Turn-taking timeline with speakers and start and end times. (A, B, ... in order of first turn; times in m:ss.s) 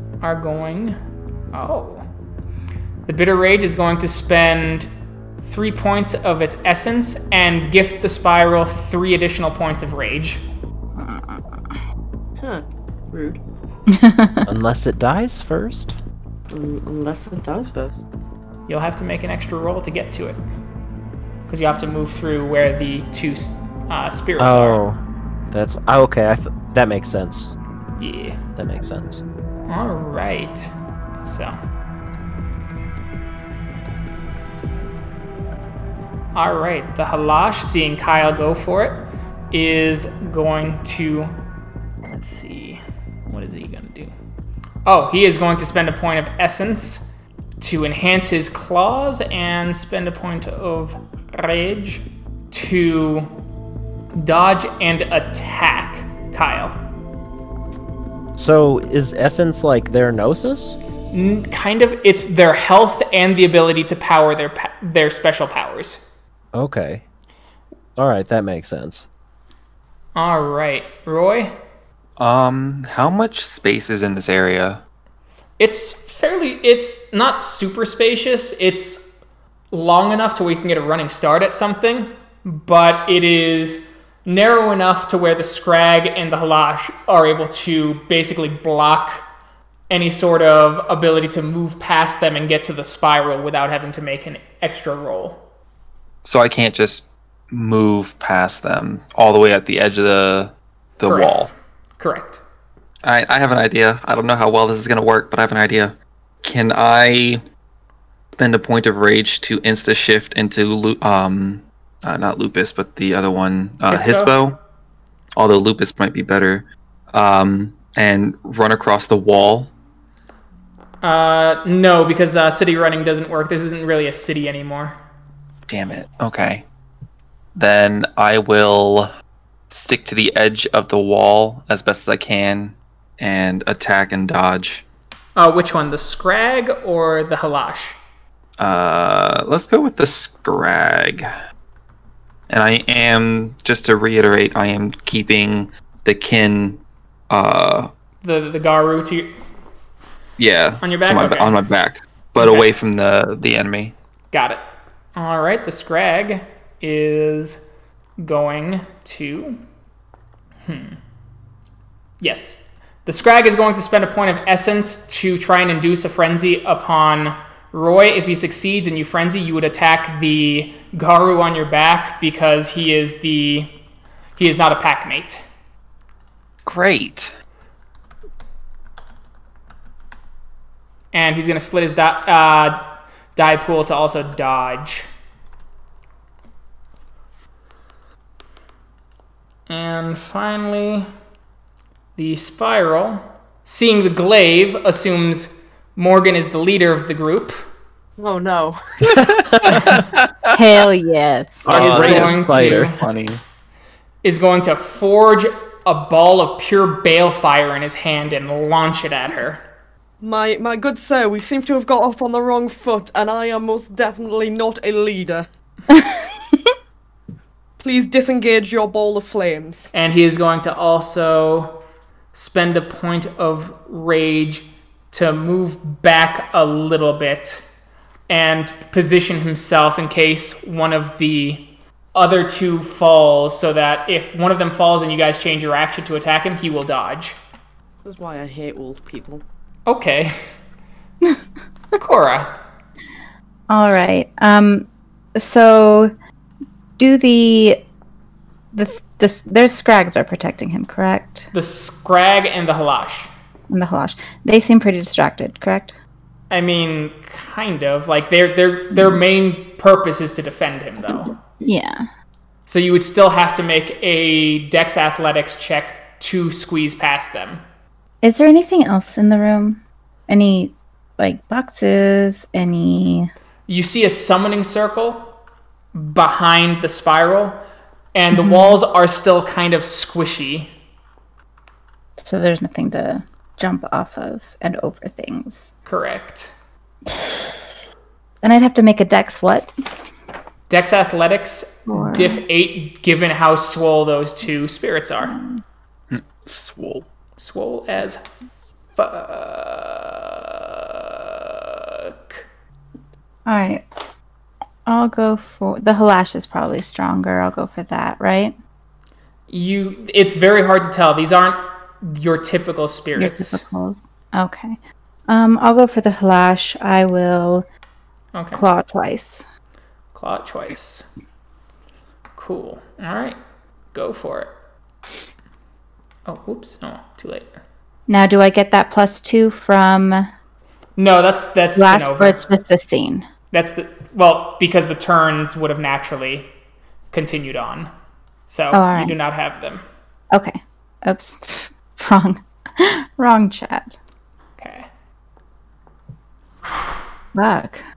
0:00.2-0:01.0 A
0:01.5-0:02.1 A
0:03.1-0:04.9 A
0:05.4-0:10.4 A
0:11.0-0:11.4 B
0:12.4-0:13.4 C
0:13.9-0:14.4 B
0:14.5-0:16.0 D
0:16.5-0:18.0 C
0:18.7-0:20.4 A
0:21.5-0:24.8 A
0:24.4-0:25.0 D
0:25.5-0:27.5 D
0:28.0-0:28.4 A
0:28.6-0:29.2 D
0:29.7-0:31.6 A
0:36.4-0:41.3 A
0:42.1-0:44.1 A
0:44.9-0:47.0 A
0:47.6-0:53.3 A
0:54.2-0:56.8 A
0:58.4-1:00.8 D
1:01.1-1:06.0 A
1:06.5-1:07.0 D
1:08.0-1:09.0 D
1:10.2-1:11.5 A
1:12.2-1:14.8 E
1:15.6-1:19.1 A
1:19.7-1:29.2 A
1:29.9-1:35.4 A
1:36.2-1:41.5 E
1:41.0-1:42.4 A
1:43.0-1:47.4 E
1:48.4-1:54.6 E
1:53.9-1:54.4 A
1:55.4-1:59.7 E
2:01.0-2:05.0 A
2:05.7-2:06.6 E
2:07.6-2:09.1 E
2:09.7-2:14.8 E
2:15.4-2:18.0 A
2:18.6-2:21.3 E
2:22.5-2:27.9 E
2:28.2-2:29.3 A
2:30.4-2:33.9 E
2:30.8-2:31.6 A
2:32.4-2:32.7 A
2:34.3-2:34.6 A
2:35.2-2:37.6 A
2:38.2-2:39.6 A
2:40.7-2:41.0 A
2:42.2-2:53.8 A
2:54.4-2:55.4 A
2:56.6-2:57.3 E
3:01.1-3:02.8 A
3:03.4-3:05.1 A
3:09.7-3:11.1 A
3:12.2-3:17.6 A
3:18.2-3:18.8 C
3:19.2-3:20.6 E
3:19.2-3:20.0 D
3:20.5-3:21.9 B
3:21.7-3:23.4 E
3:21.7-3:23.0 D
3:21.7-3:23.0 A
3:24.2-3:29.6 A
3:30.2-3:35.5 C
3:37.8-3:39.9 C
3:39.9-3:41.8 A
3:42.3-3:47.6 A
3:48.3-3:57.4 A
3:58.0-3:59.4 C
3:59.9-4:00.4 A
4:02.0-4:02.6 A
4:03.7-4:06.1 B
4:07.0-4:07.8 B
4:08.7-4:11.5 B
4:11.5-4:13.3 A
4:13.7-4:16.0 B
4:16.5-4:21.3 A
4:18.9-4:19.2 B
4:21.6-4:22.1 B
4:22.7-4:27.6 A
4:28.2-4:33.3 B
4:33.7-4:35.4 A
4:35.9-4:37.6 A
4:38.1-4:40.7 A
4:38.3-4:38.8 B
4:42.2-4:45.7 B
4:45.9-4:46.5 A
4:48.4-4:49.7 B
4:50.7-4:55.4 A
4:51.9-4:52.4 B
4:55.3-4:55.6 B
4:56.1-4:57.1 E
4:57.4-4:58.2 A
4:59.0-5:02.4 A
5:03.5-5:03.8 B
5:04.9-5:08.6 B
5:09.5-5:13.6 A
5:13.2-5:17.7 B
5:18.3-5:18.6 A
5:18.5-5:19.5 B
5:20.1-5:21.1 A
5:22.4-5:23.4 A
5:23.9-5:24.5 A
5:26.3-5:27.6 A
5:28.1-5:30.3 B
5:31.0-5:32.5 A
5:31.8-5:33.3 B
5:33.5-5:36.5 A
5:37.1-5:37.9 A
5:38.5-5:39.8 A
5:38.7-5:39.2 B
5:40.3-5:44.0 B
5:44.6-5:44.9 A
5:47.3-5:47.8 B